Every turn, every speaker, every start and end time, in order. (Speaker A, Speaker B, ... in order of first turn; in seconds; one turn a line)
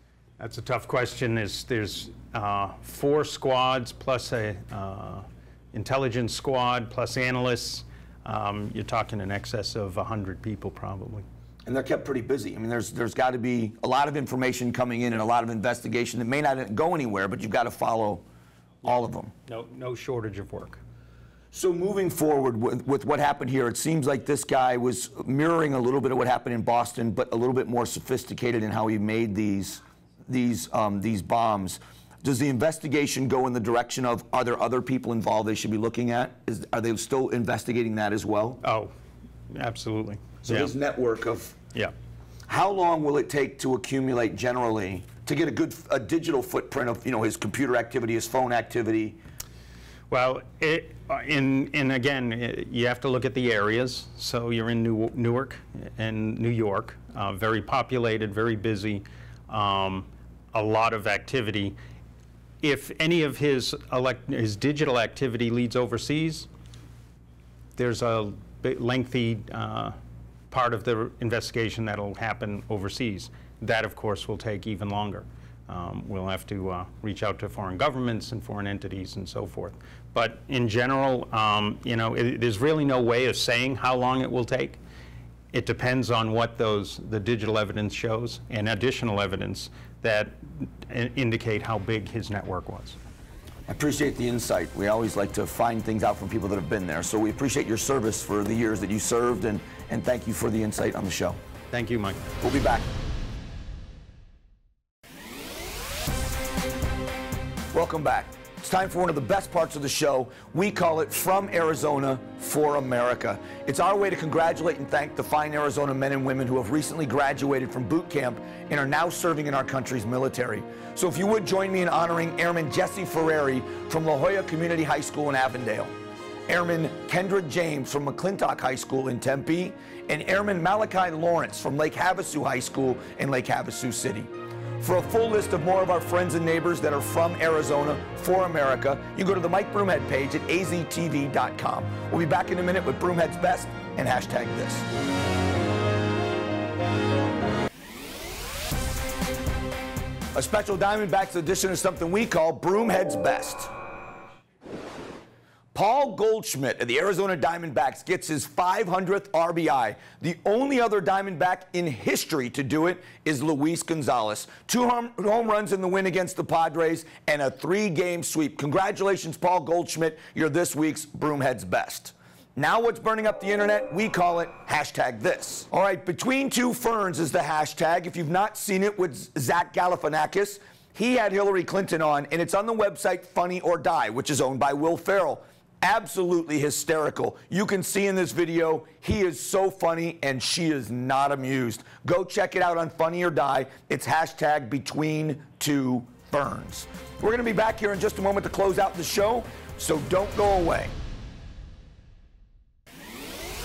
Speaker A: 0.4-11.2
Speaker B: 11.7-18.2
Speaker B: 18.8-19.3
Speaker A: 18.9-20.8
Speaker B: 21.5-38.6
Speaker A: 38.6-38.9
Speaker A: 39.5-40.7
Speaker B: 40.4-41.5
Speaker B: 42.5-49.2
Speaker A: 50.1-61.7
Speaker A: 62.6-66.5
Speaker A: 67.8-69.9
Speaker A: 70.5-84.8
Speaker A: 85.5-93.0
Speaker B: 93.7-101.4
Speaker A: 101.7-102.2
Speaker B: 102.4-102.9
Speaker B: 107.7-125.9
Speaker B: 126.5-144.8
Speaker B: 150.3-153.7
Speaker B: 155.7-200.9